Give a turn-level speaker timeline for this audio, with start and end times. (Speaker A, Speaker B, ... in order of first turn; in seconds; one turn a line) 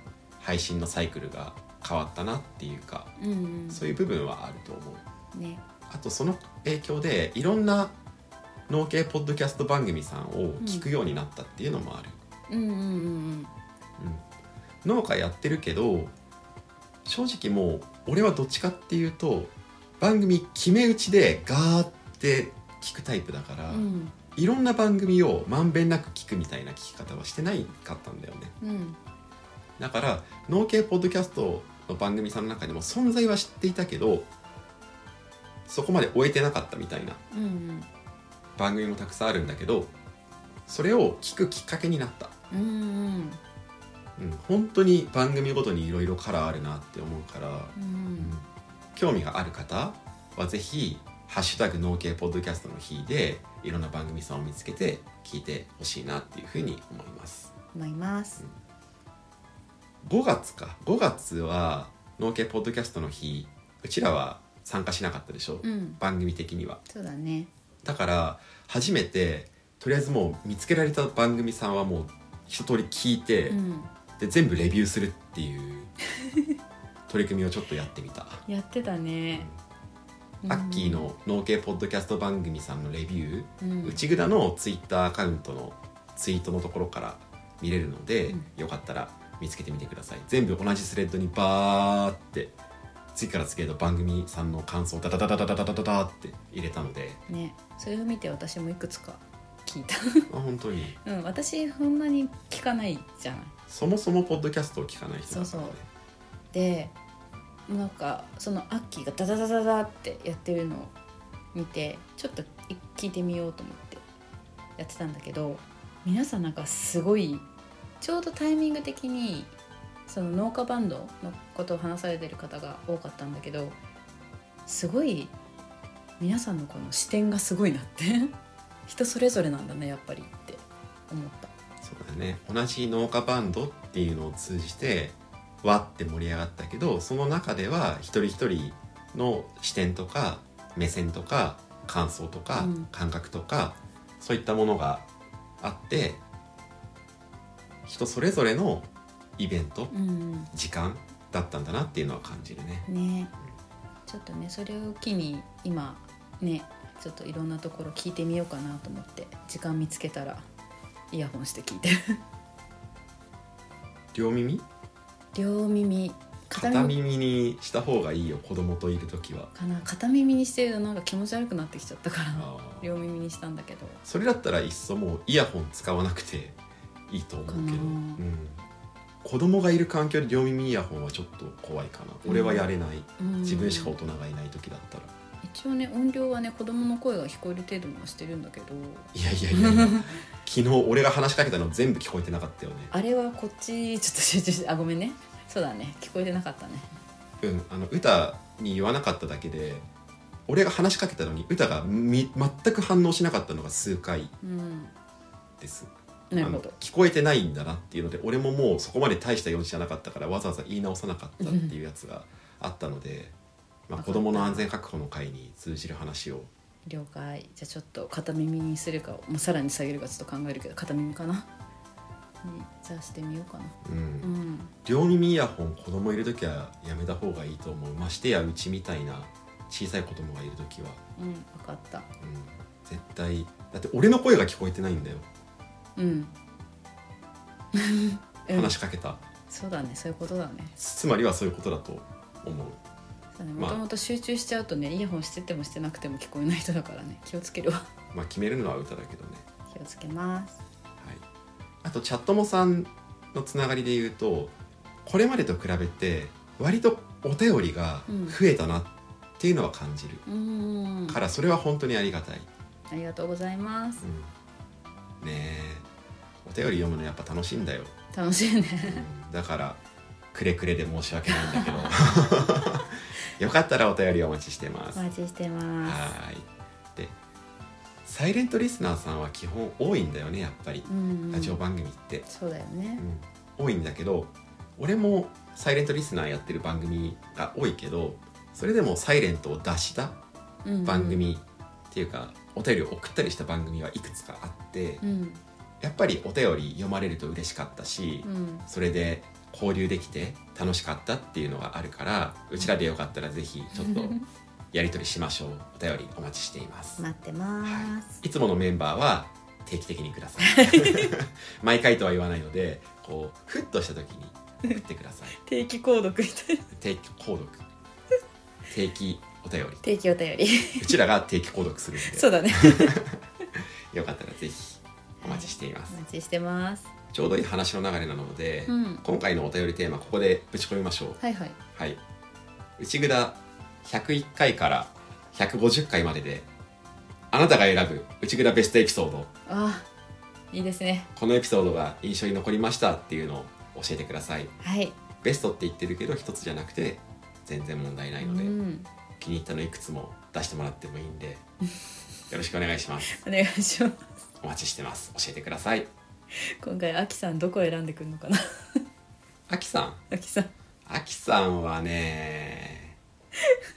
Speaker A: 0.4-3.1
Speaker B: 3.2-3.8
Speaker A: 3.7-5.0
Speaker B: 5.3-5.6
Speaker A: 5.9-7.9
Speaker A: 8.7-12.2
Speaker B: 10.6-10.9
Speaker B: 12.5-13.5
Speaker A: 14.0-14.2
Speaker A: 14.8-16.1
Speaker A: 17.1-28.5
Speaker B: 23.7-24.1
Speaker B: 28.6-29.0
Speaker A: 29.8-34.3
Speaker A: 35.7-37.2
Speaker B: 37.3-37.9
Speaker A: 38.6-39.9
Speaker A: 40.7-42.3
Speaker B: 42.5-43.4
Speaker A: 44.2-57.5
Speaker B: 47.8-48.3
Speaker B: 57.7-58.4
Speaker A: 60.0-66.8
Speaker B: 65.6-66.0
Speaker B: 66.9-67.5
Speaker A: 67.8-73.6
Speaker B: 73.5-73.9
Speaker A: 74.2-75.9
Speaker A: 77.1-78.4
Speaker B: 78.5-79.5
Speaker B: 80.4-81.1
Speaker A: 80.5-92.5
Speaker B: 83.6-84.0
Speaker A: 93.1-97.2
Speaker B: 97.3-100.3
Speaker A: 100.3-100.9
Speaker B: 101.0-103.5
Speaker A: 103.7-105.9
Speaker B: 105.3-105.8
Speaker B: 106.5-106.9
Speaker B: 107.7-110.9
Speaker B: 111.5-114.0
Speaker B: 114.8-117.4
Speaker B: 118.0-119.5
Speaker B: 120.1-123.8
Speaker B: 124.7-125.3
Speaker B: 126.2-128.3
Speaker B: 128.9-131.5
Speaker A: 131.8-145.1
Speaker B: 142.6-142.9
Speaker A: 145.6-146.2
Speaker A: 147.9-149.9
Speaker B: 149.9-150.5
Speaker A: 150.5-152.9
Speaker B: 152.9-153.3
Speaker B: 154.1-160.4
Speaker B: 161.1-162.2
Speaker A: 164.1-164.6
Speaker B: 165.3-166.9
Speaker A: 166.5-169.5
Speaker B: 169.6-174.0
Speaker A: 172.3-172.9
Speaker A: 174.1-176.6
Speaker A: 177.1-178.6
Speaker B: 177.5-178.2
Speaker A: 179.2-185.1
Speaker B: 182.2-182.7
Speaker B: 183.2-184.0
Speaker B: 185.4-190.1
Speaker A: 189.1-192.9
Speaker B: 192.9-196.9
Speaker A: 197.4-199.8
Speaker A: 200.5-204.3
Speaker B: 204.4-204.9
Speaker A: 205.6-213.3
Speaker B: 206.3-206.7
Speaker B: 211.4-211.7
Speaker A: 213.9-216.5
Speaker B: 213.9-214.7
Speaker B: 216.9-221.5
Speaker B: 222.4-224.7
Speaker A: 223.8-224.3
Speaker A: 224.8-231.0
Speaker B: 231.2-232.1
Speaker A: 232.2-235.2
Speaker B: 236.0-236.3
Speaker B: 237.7-238.7
Speaker A: 238.5-239.2
Speaker B: 239.5-240.8
Speaker A: 240.8-242.8
Speaker B: 243.4-247.9
Speaker A: 243.6-243.8
Speaker A: 248.1-249.4
Speaker B: 249.7-250.6
Speaker A: 251.8-254.5
Speaker A: 255.1-260.2
Speaker B: 258.1-258.4
Speaker B: 260.2-261.2
Speaker A: 261.1-262.5
Speaker B: 262.9-264.1
Speaker A: 264.0-264.3
Speaker A: 265.2-265.9
Speaker A: 266.4-267.9
Speaker B: 268.1-269.1
Speaker A: 268.9-269.8
Speaker A: 270.3-275.1
Speaker B: 271.3-271.9
Speaker B: 274.9-276.1
Speaker A: 275.8-277.1
Speaker A: 278.1-282.2
Speaker B: 280.9-281.6
Speaker B: 282.2-283.1
Speaker A: 283.0-290.2
Speaker B: 290.6-291.2
Speaker A: 290.9-295.0
Speaker B: 295.0-295.4
Speaker A: 295.8-304.1
Speaker B: 298.2-298.6
Speaker B: 303.8-304.2
Speaker A: 304.7-307.0
Speaker B: 307.0-308.2
Speaker A: 307.6-315.4
Speaker B: 310.4-311.1
Speaker B: 315.4-316.7
Speaker A: 316.7-317.6
Speaker A: 318.7-319.8
Speaker B: 319.8-320.9
Speaker A: 320.8-325.9
Speaker B: 322.0-323.0
Speaker B: 325.2-326.9
Speaker A: 327.1-331.2
Speaker B: 328.7-329.0
Speaker B: 331.2-331.6
Speaker A: 331.7-332.0
Speaker A: 332.8-336.5
Speaker A: 337.3-339.3
Speaker B: 339.5-339.9
Speaker B: 340.5-341.1
Speaker A: 341.1-344.5
Speaker B: 344.6-344.9
Speaker A: 345.2-348.5
Speaker B: 348.2-348.9
Speaker A: 349.2-351.4
Speaker A: 352.3-353.2
Speaker B: 353.1-354.1
Speaker A: 354.4-355.9
Speaker B: 356.3-358.8
Speaker A: 359.5-360.0
Speaker B: 360.1-360.5
Speaker A: 360.9-362.9